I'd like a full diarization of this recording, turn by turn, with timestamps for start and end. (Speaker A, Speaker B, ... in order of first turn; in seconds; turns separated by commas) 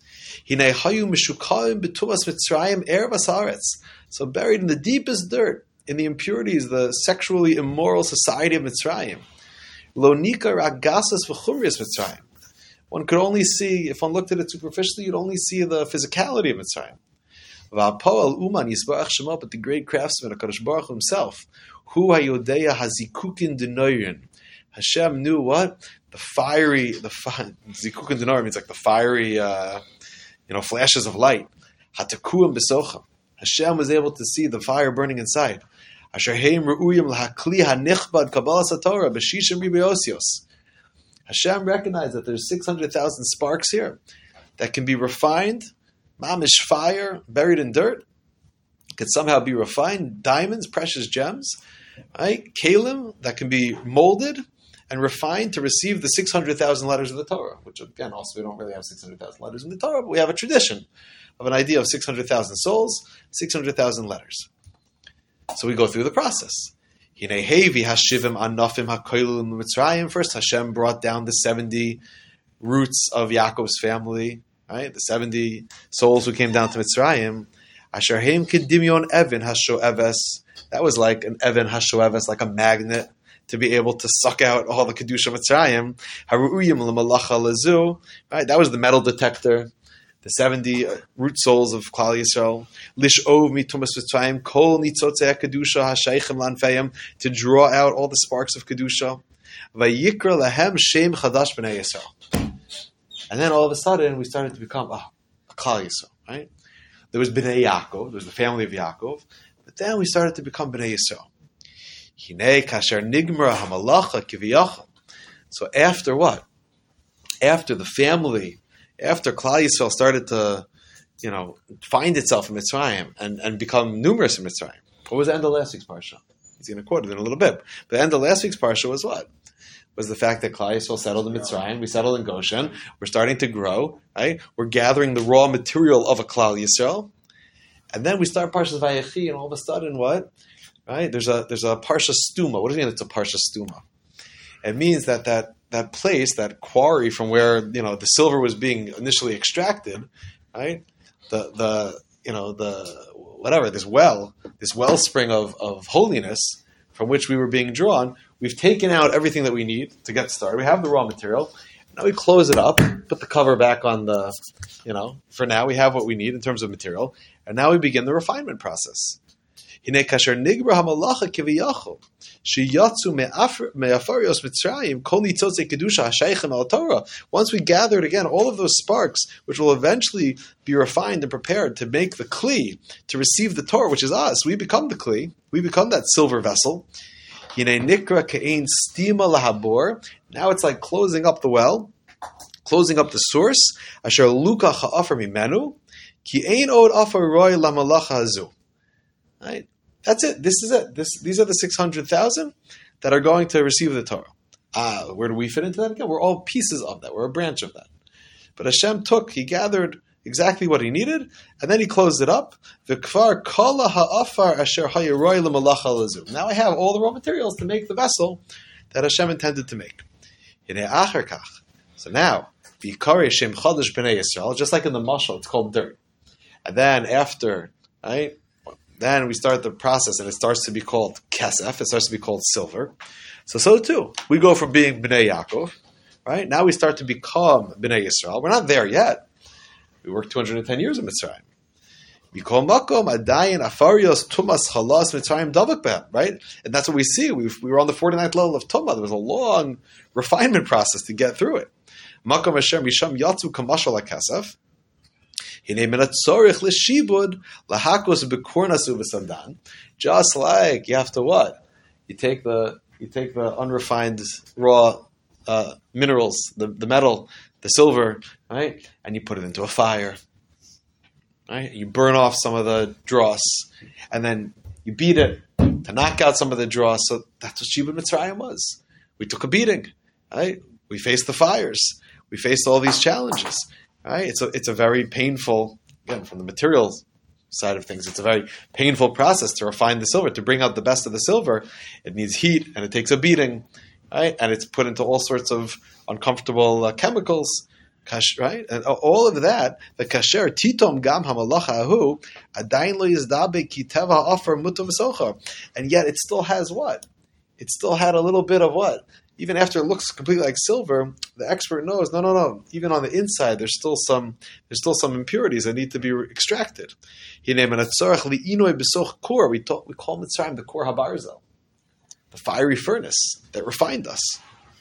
Speaker A: 0.5-9.2, Speaker A: 9.9-12.3, Speaker A: 12.9-17.0, Speaker A: 17.7-29.8, Speaker A: 30.5-40.4, Speaker A: 41.3-44.0, Speaker A: 44.6-48.0, Speaker A: 49.0-51.6, Speaker A: 52.1-60.9, Speaker A: 61.4-64.5, Speaker A: 65.5-72.0, Speaker A: 72.6-89.7, Speaker A: 90.2-99.2, Speaker A: 99.7-102.1, Speaker A: 103.3-106.5, Speaker A: 107.1-111.3, Speaker A: 112.2-114.9, Speaker A: 115.5-116.5, Speaker A: 117.4-120.7, Speaker A: 121.2-129.3, Speaker A: 130.0-137.1, Speaker A: 137.9-140.3, Speaker A: 140.9-143.8, Speaker A: 144.6-169.2, Speaker A: 169.8-186.9, Speaker A: 187.6-191.9, Speaker A: 192.7-198.5, Speaker A: 199.4-207.9, Speaker A: 208.6-218.4, Speaker A: 218.9-220.0, Speaker A: 220.7-226.0, Speaker A: 226.7-232.9, Speaker A: 233.5-239.3, Speaker A: 240.0-241.4, Speaker A: 242.3-251.7, Speaker A: 252.2-254.6, Speaker A: 255.7-270.2, Speaker A: 271.5-307.1, Speaker A: 307.6-321.4, Speaker A: 322.3-324.4